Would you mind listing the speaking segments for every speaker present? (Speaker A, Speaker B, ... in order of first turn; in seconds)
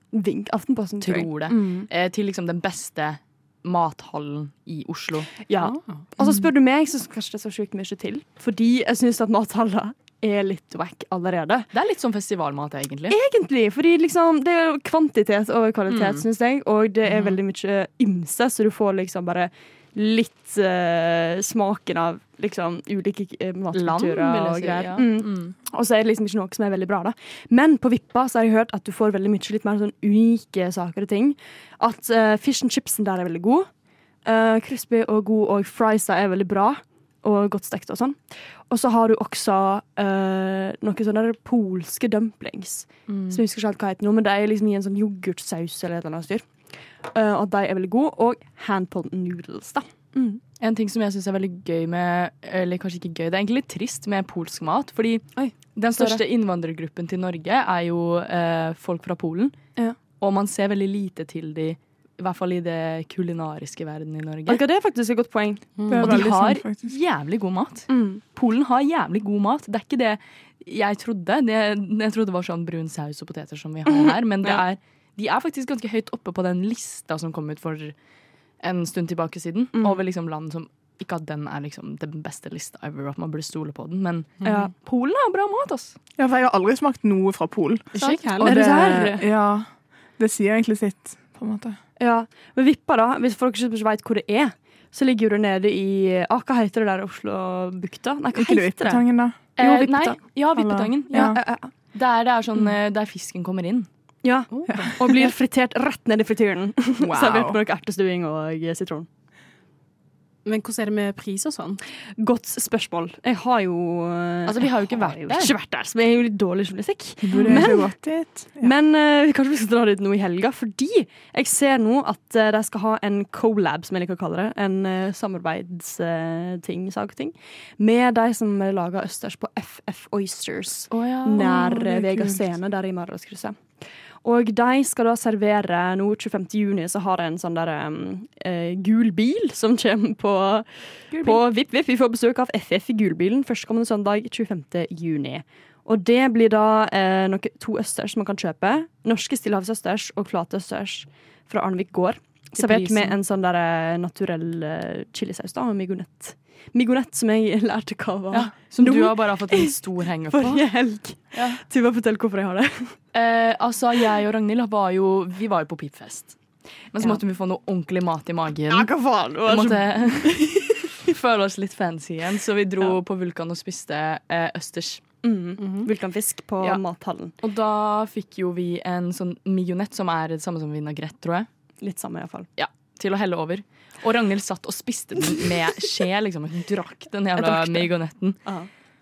Speaker A: 0.1-1.9, 5.5-11.7, 13.1-33.7, 34.2-46.5, 47.1-50.4, 55.4-56.2, 64.5-66.3, 67.9-68.2, 73.9-74.6, 79.8-80.0, 84.4-84.7, 88.4-89.2, 92.0-99.0, 99.6-100.2, 101.1-101.7, 104.2-109.1, 112.2-118.0, 118.6-133.6, 134.2-159.8, 160.3-163.0, 168.7-170.7, 175.2-177.3, 181.8-182.5, 187.4-187.9, 188.4-188.7
Speaker B: 1.0-5.5, 11.7-13.2, 15.9-16.2, 17.1-17.4, 23.7-25.6, 43.1-43.4, 50.6-59.5, 60.2-64.6, 66.0-77.9, 78.6-86.0, 88.0-88.7, 99.6-101.4, 101.9-103.9, 114.5-115.5, 130.9-131.7, 141.1-141.4, 152.6-153.2, 158.3-160.7, 161.3-161.6, 163.1-166.4, 166.9-175.0, 177.4-181.5, 182.6-188.4
Speaker C: 65.8-66.0, 87.9-88.9, 104.5-104.9, 110.5-111.8, 175.6-175.9
Speaker D: 65.9-66.9, 86.2-89.7, 90.2-91.8, 98.3-99.4, 100.5-101.4, 107.0-107.6, 117.2-118.7, 131.4-132.4